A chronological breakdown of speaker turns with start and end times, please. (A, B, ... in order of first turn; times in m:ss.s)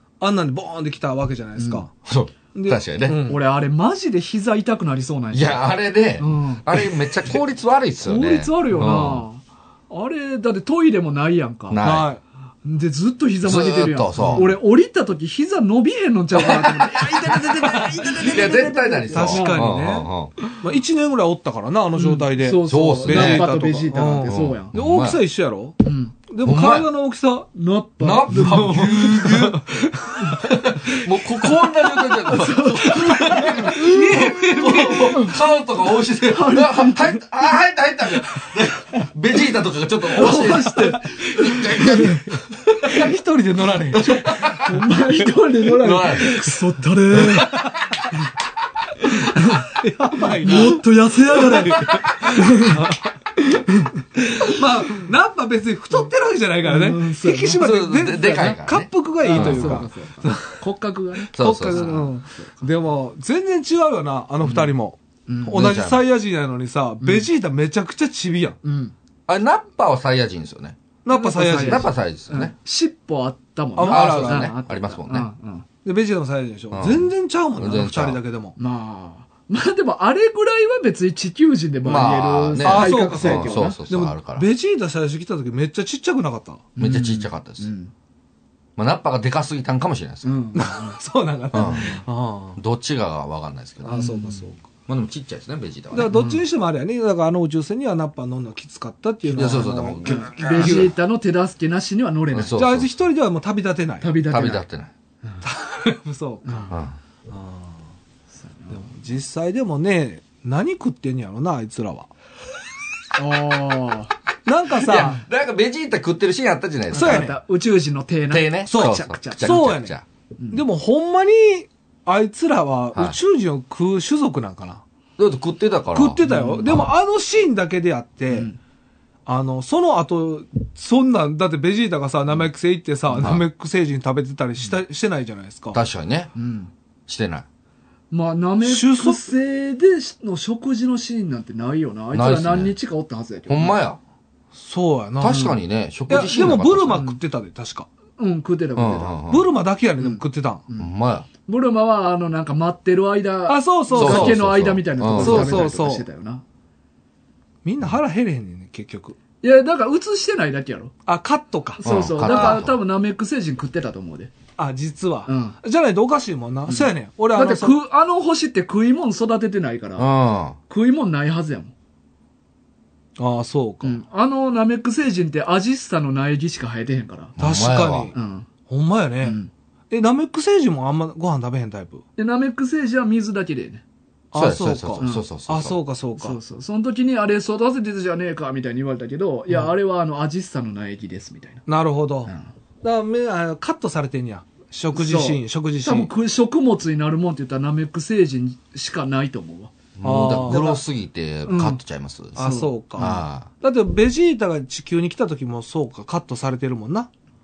0:00.2-0:01.9 A
0:01.6-0:01.8 B
0:02.0-0:03.2 C
0:02.5-0:03.4 A
0:03.2-0:05.6 B
0:05.3-0:09.2 C
0:06.2-0:06.8 B
0:08.0-0:11.8 B
0:11.7-0:12.1 C
0:11.8-0:12.2 A
0:12.6-0:19.7 B
0:13.4-0:14.5 C
0:14.2-0:14.5 A
0:16.4-0:16.8 C
0:18.0-0:20.3 C
0:19.1-0:27.5 A
0:22.0-0:24.7 B
0:22.7-0:23.5 C
0:24.3-0:25.2 C
0:25.8-0:26.1 B
0:26.4-0:26.9 C
0:27.5-0:29.0 B
0:28.0-0:29.6 C
0:28.3-0:30.5 A
0:30.3-0:42.2 C
0:32.2-0:34.3 B
0:32.9-0:35.3 A
0:35.1-0:35.3 B
0:36.3-0:37.2 B
0:40.1-0:42.3 B
0:40.9-0:44.4 A
0:43.9-0:44.8 C
0:44.0-0:48.3 B
0:45.8-0:46.4 C
0:46.0-0:46.6 A
0:47.2-0:47.8 A
0:49.0-0:49.7 B
0:49.4-0:53.1 A
0:50.4-0:52.8 B
0:51.8-0:52.1 C
0:53.4-0:53.9 B
0:54.2-1:00.6 A
0:56.6-0:58.6 B
0:57.6-0:59.9 C
0:59.2-1:02.6 B
1:01.3-1:08.6 A
1:01.3-1:02.0 C
1:04.4-1:04.7 B
1:05.3-1:05.6 B
1:05.5-1:06.0 C
1:07.0-1:07.3 B
1:08.6-1:08.9 B
1:09.3-1:10.8 C
1:11.0-1:11.9 A
1:11.1-1:15.6 B
1:11.5-1:12.5 C
1:13.8-1:14.5 A
1:13.9-1:15.3 C
1:15.8-1:18.5 A
1:16.7-1:18.2 C
1:18.6-1:23.8 B
1:21.8-1:24.5 C
1:22.6-1:26.7 A
1:26.8-1:27.9 B
1:26.8-1:27.7 C
1:28.8-1:30.3 C
1:30.2-1:31.0 B
1:30.5-1:32.6 A
1:31.5-1:32.0 C
1:32.6-1:34.0 C
1:33.8-1:34.6 A
1:33.9-1:34.5 B
1:34.9-1:36.1 C
1:35.9-1:40.9 A
1:36.1-1:36.4 B
1:39.3-1:40.9 C
1:40.0-1:42.6 B
1:42.3-1:42.9 C
1:42.5-1:44.2 A
1:44.0-1:44.6 B
1:44.3-1:44.9 C
1:45.4-1:46.7 A
1:46.4-1:46.7 B
1:46.7-1:46.9 C
1:47.3-1:47.8 A
1:48.4-1:48.9 B
1:48.7-1:52.1 A
1:53.2-1:54.1 B
1:54.4-1:55.2 A
1:54.8-1:57.3 C
1:56.9-1:59.6 B
1:56.9-1:57.3 A
1:58.3-2:00.0 C
1:58.7-2:00.0 A
2:00.5-2:04.8 A
2:05.2-2:06.8 C
2:05.9-2:08.5 A
2:06.2-2:06.8 B
2:08.3-2:08.6 B
2:09.2-2:15.8 A
2:15.7-2:16.3 C
2:16.3-2:16.7 B
2:17.1-2:17.4 C
2:18.1-2:23.8 B
2:18.6-2:19.3 A
2:22.1-2:22.7 C
2:23.5-2:24.0 C
2:24.6-2:25.5 A
2:25.2-2:27.0 C
2:25.2-2:25.6 B
2:26.1-2:27.9 A
2:26.9-2:27.2 B
2:28.2-2:29.2 B
2:28.8-2:29.5 C
2:29.3-2:30.6 A
2:30.0-2:30.9 B
2:30.8-2:31.3 C
2:31.4-2:36.4 B
2:33.5-2:34.4 A
2:33.9-2:35.7 C
2:35.1-2:36.0 A
2:37.6-2:39.2 A
2:39.4-2:40.9 B
2:41.0-2:42.6 A
2:41.8-2:44.3 B
2:41.8-2:42.7 C
2:44.6-2:47.8 A
2:45.2-2:45.5 B
2:46.7-2:50.1 B
2:50.0-2:50.6 C
2:50.7-2:51.7 B
2:53.2-2:54.0 A
2:53.8-2:57.3 B
2:57.4-2:58.1 C
2:57.4-2:58.1 A
2:58.1-2:58.5 B
2:58.7-2:59.4 A
2:59.2-2:59.5 B
2:59.9-3:02.0 A
3:02.2-3:03.8 B
3:04.3-3:06.4 A
3:04.3-3:05.8 C
3:05.0-3:05.2 B
3:06.2-3:11.6 B
3:11.7-3:12.3 A
3:12.8-3:16.1 A
3:14.9-3:19.7 B
3:20.0-3:22.4 C
3:20.0-3:20.7 A
3:20.5-3:20.8 B
3:21.4-3:21.8 B
3:22.3-3:23.2 B
3:22.4-3:27.1 A
3:23.0-3:23.5 C